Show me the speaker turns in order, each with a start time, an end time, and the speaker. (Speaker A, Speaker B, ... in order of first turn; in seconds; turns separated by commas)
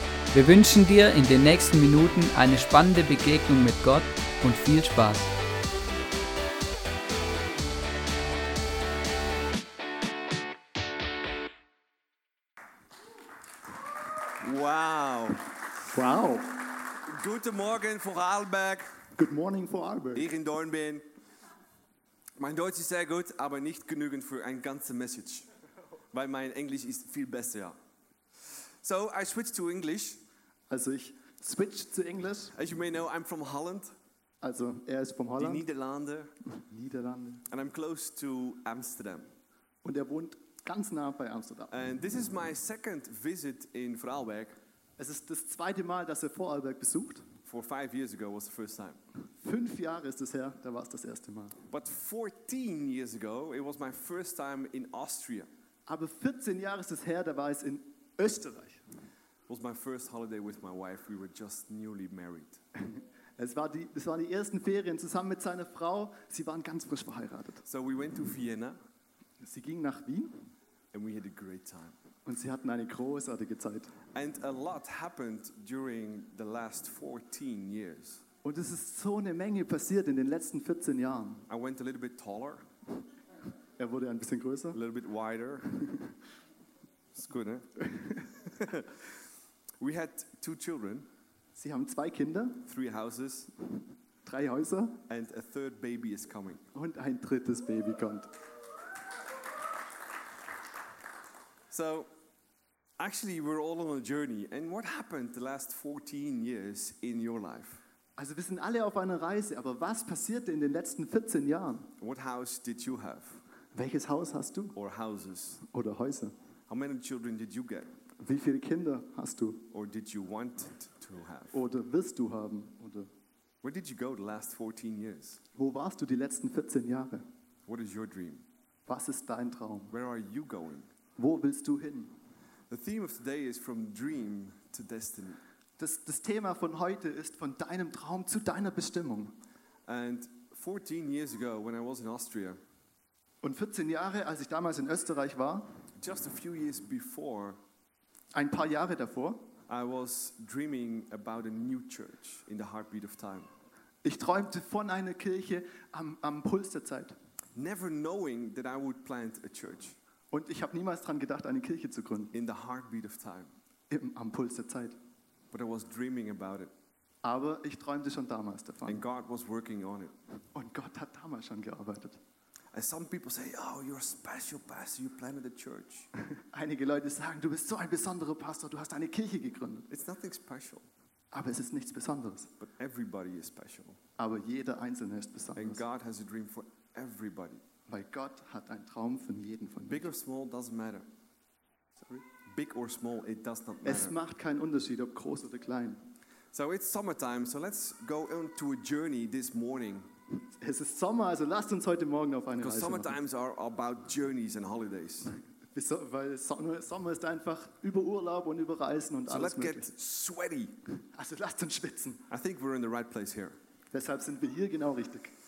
Speaker A: 0.3-5.3, Speaker B: 14.3-15.6, Speaker C: 15.9-16.7, Speaker B: 16.9-19.0, Speaker C: 19.1-20.3, Speaker B: 20.1-21.0, Speaker B: 22.4-25.5, Speaker B: 26.1-27.8, Speaker B: 28.8-30.2, Speaker C: 30.7-32.6, Speaker B: 32.5-34.0, Speaker C: 34.4-35.6, Speaker B: 35.4-36.3, Speaker C: 36.5-37.5, Speaker B: 37.5-39.3, Speaker C: 39.8-41.8, Speaker B: 41.7-44.6, Speaker C: 45.0-47.3, Speaker B: 47.5-49.0, Speaker C: 49.4-51.6, Speaker B: 51.7-55.5, Speaker C: 55.9-58.8, Speaker B: 59.5-62.6, Speaker C: 62.8-67.6, Speaker B: 67.7-68.8, Speaker C: 69.4-70.5, Speaker B: 70.9-72.0, Speaker C: 72.3-74.0, Speaker B: 74.1-78.2, Speaker C: 78.4-81.5, Speaker B: 81.5-82.7, Speaker C: 83.8-84.8, Speaker B: 84.7-86.0, Speaker B: 87.1-89.1, Speaker C: 87.8-88.3, Speaker B: 89.8-91.1, Speaker C: 91.5-92.7, Speaker B: 92.7-93.5, Speaker C: 94.2-95.0, Speaker B: 95.1-96.6, Speaker C: 96.7-98.3, Speaker B: 101.7-102.1, Speaker B: 103.0-107.8, Speaker C: 108.2-111.9, Speaker B: 112.0-113.4, Speaker C: 113.7-114.8, Speaker B: 114.8-115.6, Speaker C: 115.6-116.3, Speaker B: 116.7-117.9, Speaker C: 118.2-119.7, Speaker B: 119.7-121.6, Speaker C: 121.5-123.1, Speaker B: 123.6-125.4, Speaker C: 125.5-127.3, Speaker B: 127.7-128.5, Speaker C: 128.9-129.9, Speaker B: 129.9-130.9, Speaker C: 131.2-132.2, Speaker B: 132.7-135.4, Speaker C: 135.8-139.4, Speaker B: 139.9-142.6, Speaker C: 143.4-145.7, Speaker B: 146.0-147.6, Speaker C: 148.3-149.4, Speaker B: 149.7-153.5, Speaker C: 154.0-157.2, Speaker B: 157.6-160.0, Speaker C: 160.3-162.3, Speaker B: 162.3-163.5, Speaker C: 163.9-165.0, Speaker B: 165.5-166.7, Speaker C: 167.2-169.0, Speaker B: 168.9-170.1, Speaker C: 170.5-172.2, Speaker B: 172.7-176.1, Speaker C: 176.4-179.9, Speaker B: 179.9-180.9, Speaker C: 181.3-182.5, Speaker B: 182.6-184.0, Speaker C: 184.2-185.8, Speaker B: 185.6-187.6, Speaker C: 187.9-190.1, Speaker B: 189.9-191.1, Speaker B: 192.3-194.2, Speaker C: 193.8-196.0, Speaker B: 196.5-200.1, Speaker C: 200.4-203.2, Speaker B: 202.6-205.3, Speaker C: 205.7-209.9, Speaker B: 209.3-210.8, Speaker C: 211.0-212.2, Speaker B: 212.3-213.6, Speaker C: 213.9-215.3